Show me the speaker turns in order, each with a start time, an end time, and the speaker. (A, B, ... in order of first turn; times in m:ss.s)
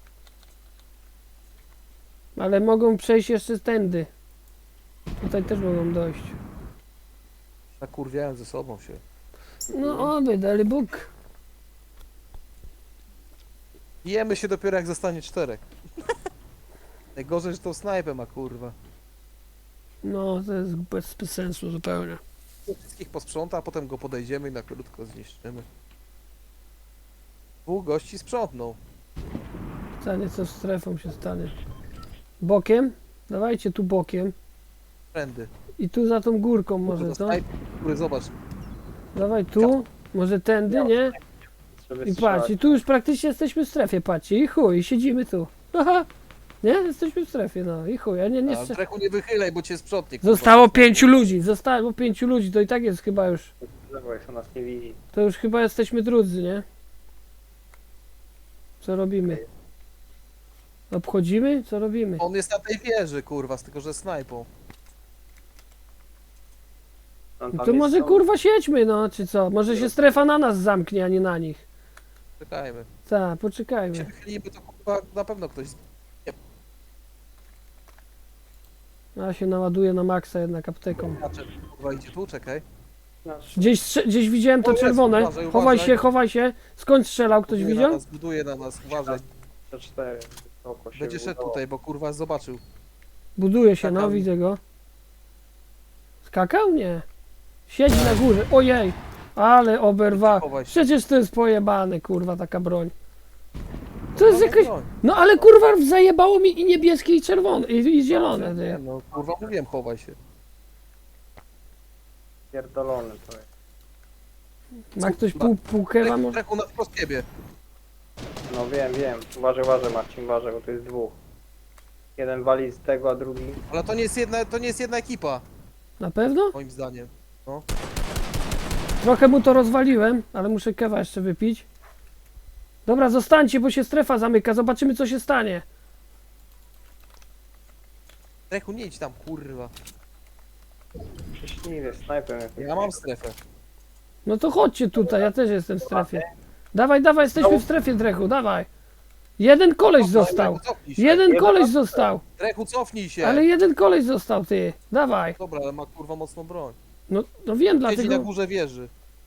0:02.4-0:04.1 A
0:05.2-0:06.4 A
0:07.8-0:09.0 B
0:09.7-0:11.1 A
0:09.7-0:10.1 B
0:14.0-0:15.7 B
0:17.2-0:18.8 B
0:20.0-0:22.2 A
0:22.7-0:25.7 B
0:27.7-0:28.8 B
0:30.0-0:31.5 A
0:32.4-0:34.3 A
0:35.1-0:35.5 B
0:35.8-0:37.4 A
0:36.9-0:38.3 B
0:39.2-0:41.2 A
0:40.7-0:42.8 C
0:42.0-0:46.1 A
0:46.6-0:48.8 A
0:48.5-0:51.3 B
0:50.2-0:53.5 A
0:53.6-0:55.0 C
0:55.1-0:56.6 A
0:58.8-0:59.4 A
1:00.9-1:02.2 A
1:02.2-1:04.5 B
1:07.4-1:08.2 C
1:07.5-1:11.6 A
1:12.4-1:12.9 B
1:13.1-1:14.1 A
1:13.9-1:16.4 B
1:19.2-1:21.2 A
1:21.2-1:22.6 B
1:23.2-1:23.8 C
1:23.6-1:28.0 A
1:24.6-1:26.0 B
1:27.5-1:29.2 B
1:28.9-1:31.6 C
1:31.0-1:32.6 B
1:33.4-1:34.6 A
1:33.8-1:34.3 B
1:36.2-1:37.0 A
1:37.7-1:42.9 A
1:40.1-1:40.9 B
1:44.1-1:44.9 B
1:44.2-1:48.8 A
1:48.1-1:50.2 B
1:52.5-1:53.5 C
1:55.0-1:56.4 A
1:55.0-1:57.3 B
1:58.5-2:01.2 C
2:02.2-2:03.6 C
2:03.7-2:05.4 B
2:06.0-2:06.6 A
2:06.5-2:07.6 B
2:09.0-2:11.7 A
2:12.9-2:15.6 A
2:18.5-2:19.7 B
2:21.3-2:23.0 C
2:22.6-2:23.4 B
2:24.3-2:28.7 A
2:25.0-2:25.3 C
2:25.8-2:26.3 C
2:29.4-2:32.2 A
2:30.0-2:31.7 B
2:32.4-2:33.5 B
2:33.2-2:35.4 A
2:35.4-2:36.8 B
2:37.1-2:38.3 A
2:37.8-2:38.9 B